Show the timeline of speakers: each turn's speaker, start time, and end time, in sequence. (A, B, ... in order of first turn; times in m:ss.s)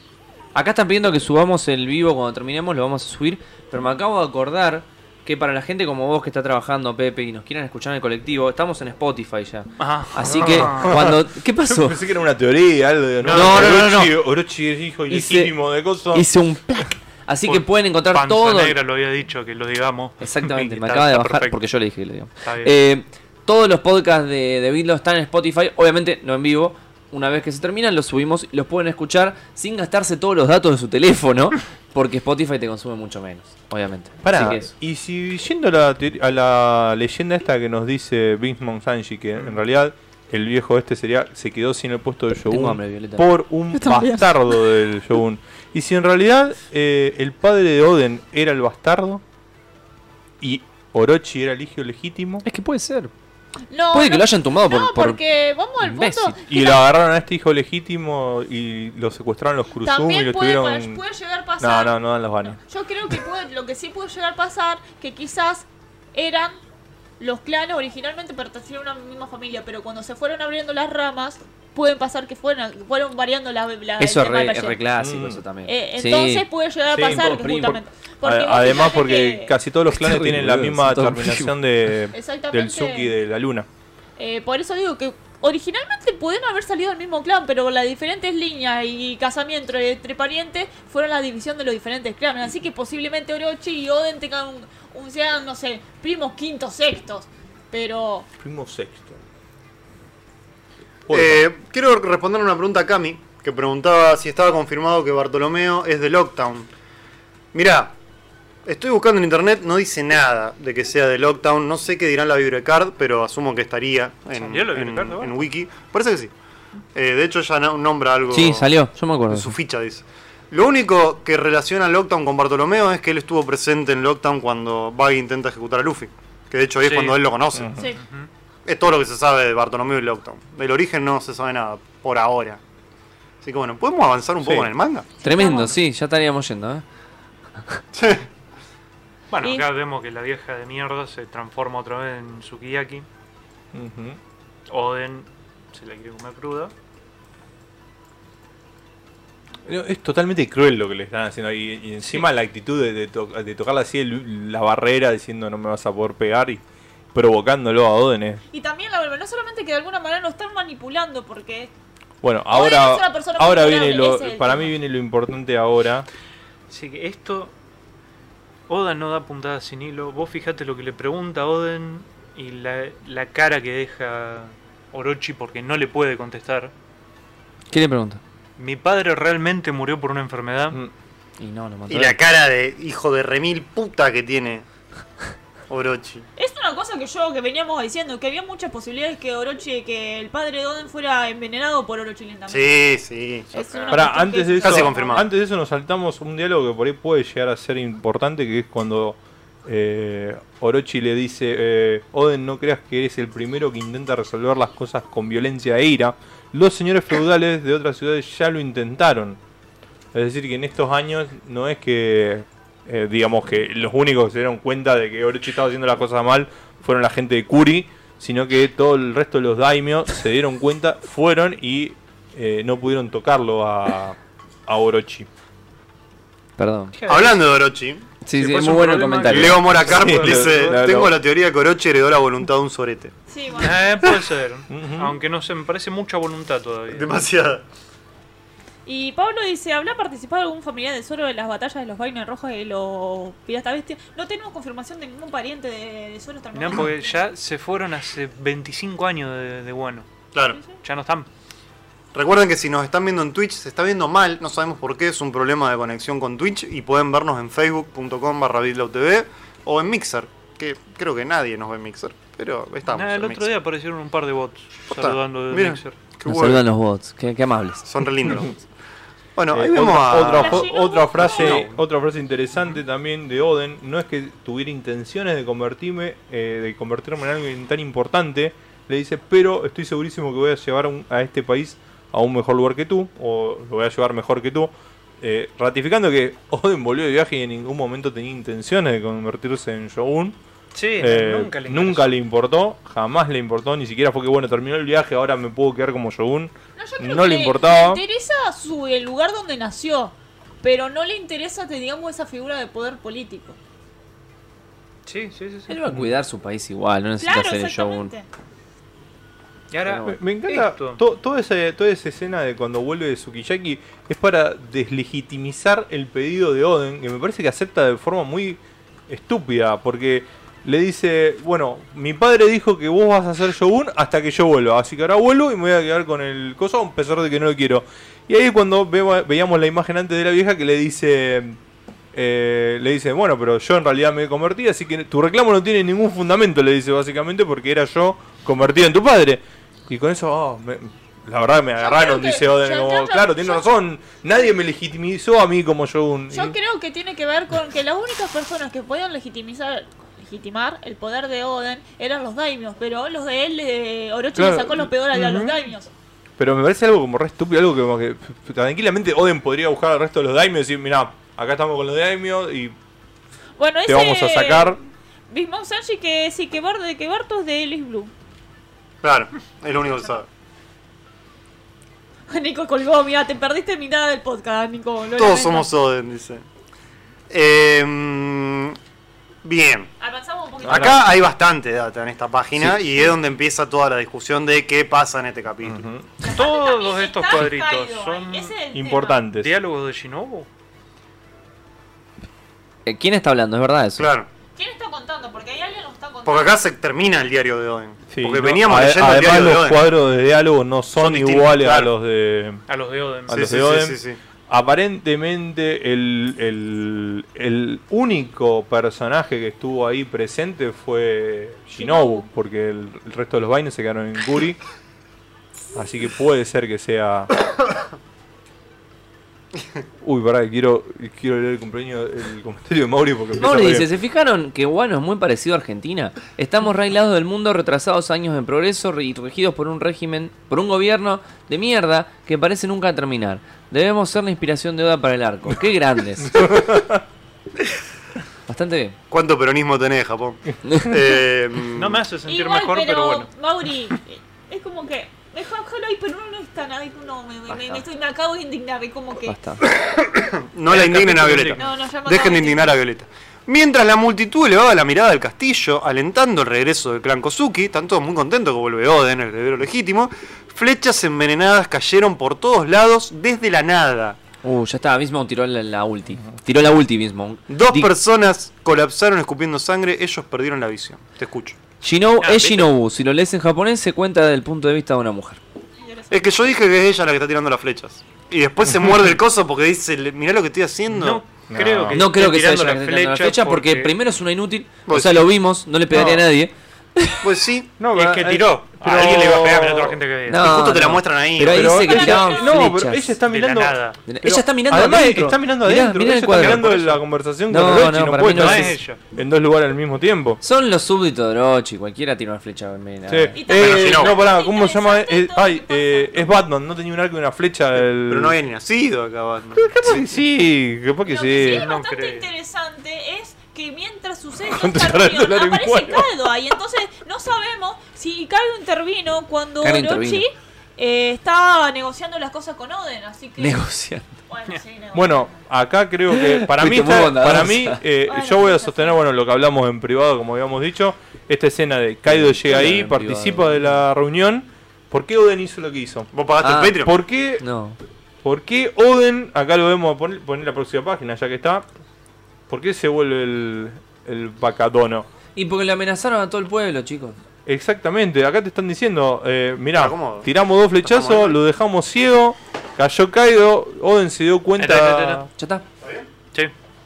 0:00.6-0:12.0 A
0:09.8-0:11.0 B
0:10.2-0:16.3 C
0:13.3-0:14.2 A
0:13.3-0:13.8 D
0:15.1-0:15.6 A
0:16.1-0:18.8 A
0:17.5-0:21.6 B
0:20.2-0:34.7 A
0:22.4-0:22.8 B
0:34.2-0:49.2 C
0:42.4-0:43.3 A
0:43.7-0:44.5 E
0:50.4-0:52.4 C
0:52.4-0:53.1 A
0:53.7-0:56.8 E
0:53.9-0:55.2 A
0:55.8-0:56.4 A
0:56.5-1:01.0 C
0:59.8-1:06.6 E
1:01.6-1:02.6 C
1:07.2-1:14.8 E
1:14.0-1:16.5 A
1:15.0-1:15.4 C
1:15.7-1:19.5 E
1:16.9-1:17.4 C
1:17.0-1:17.8 A
1:18.2-1:23.7 C
1:19.9-1:21.5 A
1:22.1-1:23.1 E
1:24.2-1:38.3 E
1:38.4-1:39.2 C
1:41.1-1:41.4 C
1:41.1-1:46.7 D
1:47.5-1:48.0 D
1:48.6-1:56.3 D
1:54.3-1:55.4 B
1:56.9-1:58.7 D
1:58.3-1:59.6 A
1:59.3-2:07.8 D
2:06.8-2:07.2 B
2:07.6-2:07.9 C
2:07.9-2:08.3 B
2:08.7-2:12.6 D
2:13.4-2:15.1 D
2:14.4-2:14.7 C
2:15.2-2:16.8 A
2:15.2-2:15.8 E
2:17.9-2:18.2 D
2:19.3-2:23.1 B
2:19.4-2:19.7 E
2:23.7-2:24.2 C
2:24.7-2:26.7 B
2:29.7-2:36.6 C
2:37.1-2:38.4 C
2:38.5-2:41.7 E
2:42.2-2:46.1 C
2:42.5-2:44.7 E
2:46.7-2:47.5 B
2:48.7-2:56.7 B
2:57.7-2:58.2 A
2:58.6-3:00.8 B
3:01.4-3:02.2 A
3:01.9-3:04.7 D
3:05.7-3:06.3 D
3:06.4-3:12.8 E
3:12.5-3:15.3 D
3:13.5-3:15.2 E
3:13.9-3:29.4 C
3:30.1-3:45.3 C
3:46.6-3:47.0 A
3:47.0-3:47.4 B
3:47.1-3:48.1 D
3:48.2-3:49.9 A
3:48.4-3:50.8 B
3:49.3-3:53.1 D
3:49.8-3:51.2 C
3:53.3-3:54.0 E
3:53.6-3:57.1 B
3:54.7-3:55.2 C
3:56.9-3:57.6 D
3:58.9-4:07.2 E
4:06.5-4:10.1 B
4:10.3-4:10.6 D
4:10.8-4:11.3 B
4:12.1-4:23.5 D
4:22.9-4:26.0 B
4:24.9-4:26.6 D
4:26.2-4:27.9 A
4:27.8-4:28.7 D
4:29.4-4:30.7 D
4:29.5-4:50.4 C
4:30.2-4:31.7 E
4:31.4-4:31.6 D
4:50.7-4:52.2 B
4:51.0-4:58.0 C
4:56.8-5:03.6 E
5:05.1-5:05.8 B
5:05.7-5:08.1 A
5:07.2-5:08.3 E
5:09.7-5:11.0 B
5:10.0-5:31.6 C
5:32.1-5:46.6 C
5:41.8-5:43.7 E
5:46.3-5:55.9 E
5:54.4-5:55.6 C
5:56.4-6:02.8 C
6:03.6-6:04.8 E
6:03.9-6:04.8 C
6:05.3-6:08.1 E
6:09.0-6:10.3 D
6:12.3-6:15.7 E
6:15.2-6:16.4 D
6:17.3-6:18.8 D
6:19.4-6:19.9 D
6:20.0-6:21.0 E
6:20.6-6:21.0 C
6:20.6-6:25.8 D
6:22.6-6:23.1 C
6:25.6-6:26.1 C
6:26.2-6:28.6 B
6:26.2-6:29.2 E
6:28.7-6:29.5 C
6:29.3-6:30.5 B
6:32.9-6:34.1 A
6:34.0-6:34.3 D
6:34.6-6:36.6 E
6:36.3-6:39.9 D
6:38.1-6:42.6 C
6:41.0-6:41.9 D
6:42.7-6:43.5 B
6:43.3-6:54.6 C
6:43.3-6:44.2 D
6:51.8-6:52.3 E
6:55.7-6:57.3 C
7:00.0-7:03.9 C
7:03.4-7:16.6 A
7:16.3-7:17.0 C
7:18.5-7:19.0 A
7:19.1-7:22.0 D
7:21.7-7:23.3 B
7:22.3-7:29.4 E
7:27.5-7:27.8 A
7:29.3-7:29.6 A
7:29.7-7:44.2 D
7:30.7-7:31.6 B
7:31.6-7:32.8 E
7:44.4-7:47.9 A
7:47.5-7:51.6 D
7:51.8-7:55.4 A
7:52.2-7:52.7 B
7:56.1-8:01.2 D
8:00.9-8:04.0 B
8:01.5-8:02.0 C
8:01.9-8:07.2 A
8:04.9-8:05.3 D
8:05.9-8:06.2 C
8:07.2-8:07.8 D
8:07.8-8:10.0 C
8:07.9-8:10.5 B
8:10.3-8:13.2 A
8:10.3-8:11.9 D
8:11.5-8:20.4 C
8:11.8-8:12.6 E
8:13.2-8:14.0 B
8:14.1-8:16.7 A
8:16.4-8:17.0 B
8:17.5-8:18.8 A
8:18.3-8:19.0 B
8:20.4-8:23.4 A
8:23.1-8:28.4 C
8:23.4-8:26.3 E
8:23.5-8:24.2 D
8:28.0-8:30.0 D
8:29.6-8:31.7 C
8:31.1-8:43.6 E
8:31.4-8:32.3 B
8:34.4-8:36.1 C
8:39.6-8:40.2 A
8:43.4-8:44.1 A
8:44.3-8:45.4 E
8:44.9-8:56.1 C
8:46.1-8:47.8 A
8:48.1-8:49.0 E
8:52.1-8:53.7 A
8:56.1-8:57.0 D
8:56.4-8:56.8 A
8:56.8-8:57.4 C
8:57.4-8:57.8 A
8:58.2-9:01.7 C
9:02.5-9:05.1 C
9:05.4-9:07.2 A
9:07.5-9:15.3 C
9:09.7-9:10.3 D
9:10.8-9:11.4 D
9:14.6-9:15.3 B
9:15.4-9:15.6 A
9:15.8-9:16.1 D